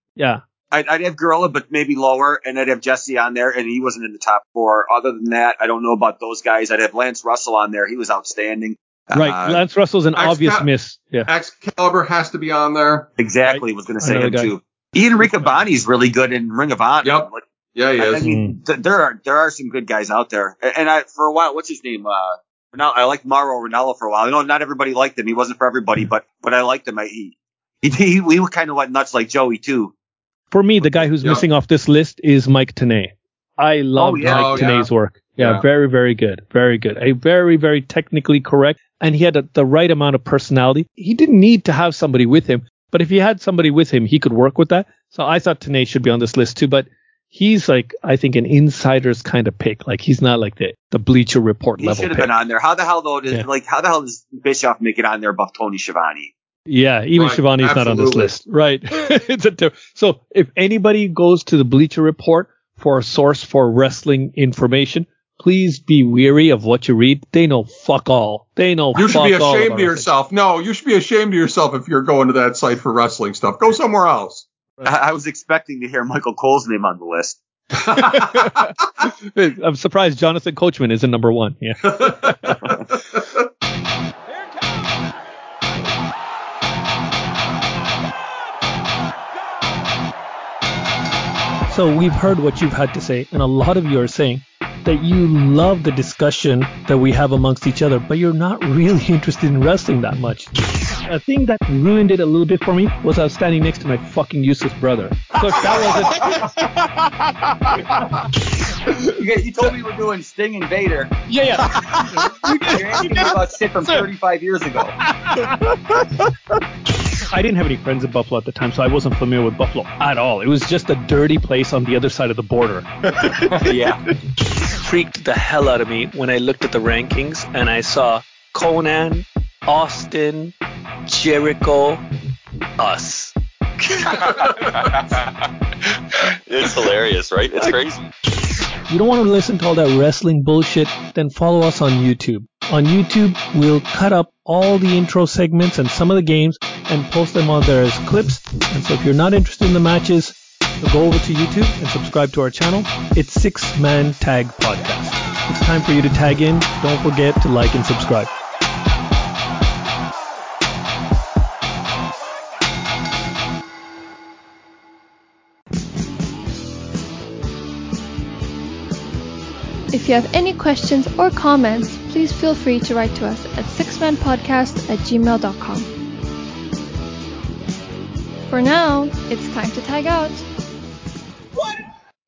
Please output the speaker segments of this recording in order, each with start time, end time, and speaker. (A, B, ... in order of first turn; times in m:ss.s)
0:00.7-0:09.6 A
0:09.1-0:11.3 B
0:10.2-0:10.7 C
0:11.2-0:13.1 C
0:13.2-0:17.4 A
0:13.5-0:14.5 B
0:17.0-0:18.2 C
0:18.0-0:29.9 A
0:18.2-0:18.6 B
0:30.5-0:52.3 B
0:30.8-0:31.4 A
0:34.0-0:34.8 A
0:34.2-0:34.9 C
0:51.8-0:56.3 A
0:56.7-1:10.1 B
0:57.2-0:58.4 C
1:08.9-1:14.4 C
1:14.8-1:17.4 A
1:17.8-1:18.6 C
1:17.9-1:22.8 B
1:21.9-1:22.8 C
1:31.7-1:46.5 B
1:46.1-1:46.4 A
1:48.8-1:49.2 B
1:49.1-1:51.3 A
1:51.3-1:53.3 B
1:52.6-1:55.0 A
1:55.1-1:55.8 B
1:57.3-2:03.7 B
2:03.5-2:04.0 A
2:04.4-2:10.5 B
2:11.0-2:12.0 B
2:12.8-2:14.9 B
2:14.2-2:15.3 A
2:16.1-2:18.1 A
2:18.9-2:38.3 B
2:49.9-2:55.9 D
2:58.5-3:00.4 D